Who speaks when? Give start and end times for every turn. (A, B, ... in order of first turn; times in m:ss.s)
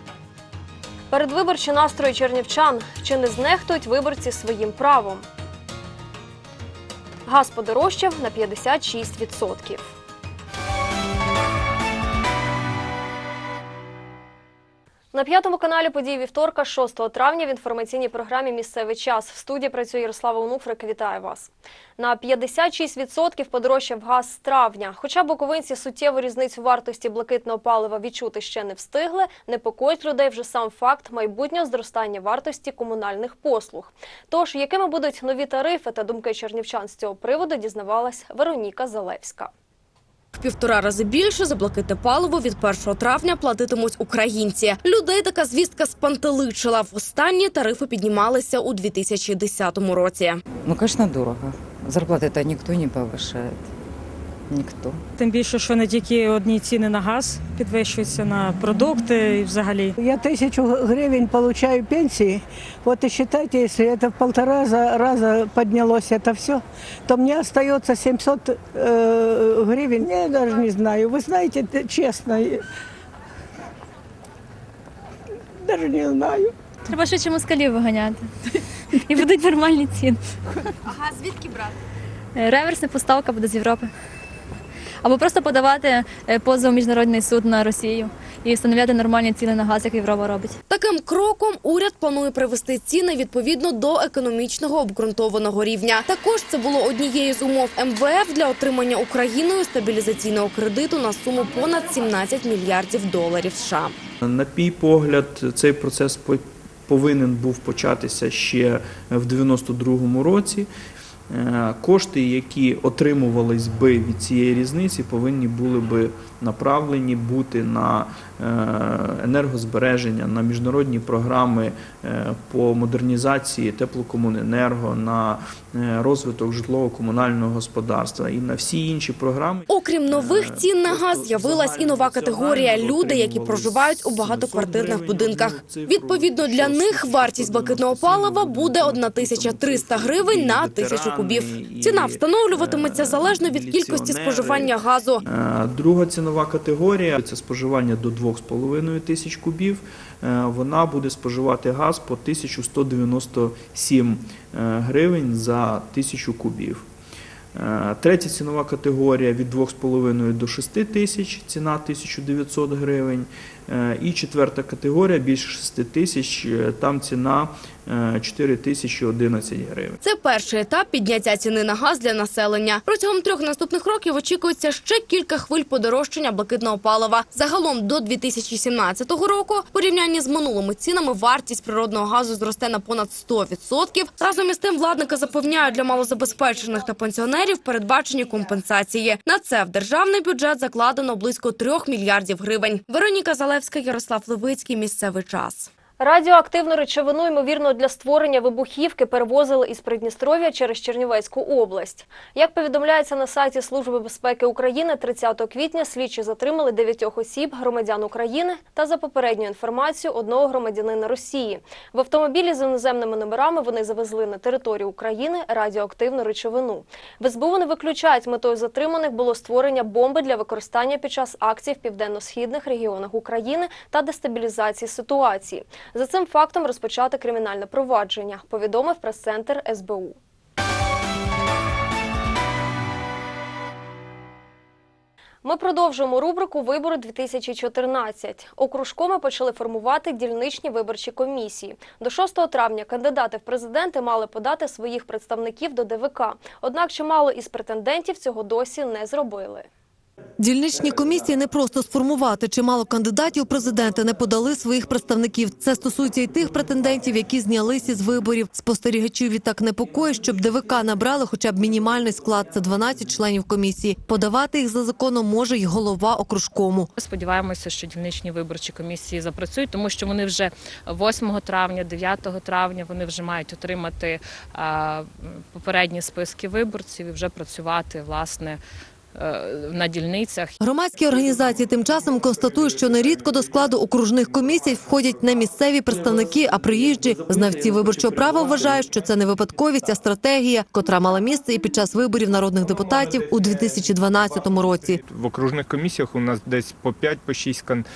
0:01.1-0:05.3 A
0:07.3-0:09.9 A
0:15.1-0:39.5 A
0:40.4-0:50.4 B
0:50.7-0:53.6 C
0:54.5-0:55.0 C
0:55.2-1:00.0 D
1:00.0-1:12.6 E
1:15.6-1:16.5 E
1:16.9-1:20.6 F
1:22.4-1:23.9 F
1:25.0-1:30.6 F
1:30.7-1:44.0 B
1:44.2-1:50.7 G
1:51.3-2:36.9 G
2:09.7-2:25.2 B
2:37.6-2:50.0 G
2:50.0-3:15.7 B
3:16.0-3:50.2 A
3:55.4-4:09.7 A
4:10.4-4:26.9 H
4:27.0-4:38.6 I
4:39.2-4:40.5 I
4:40.6-4:55.0 H
4:55.3-4:57.7 J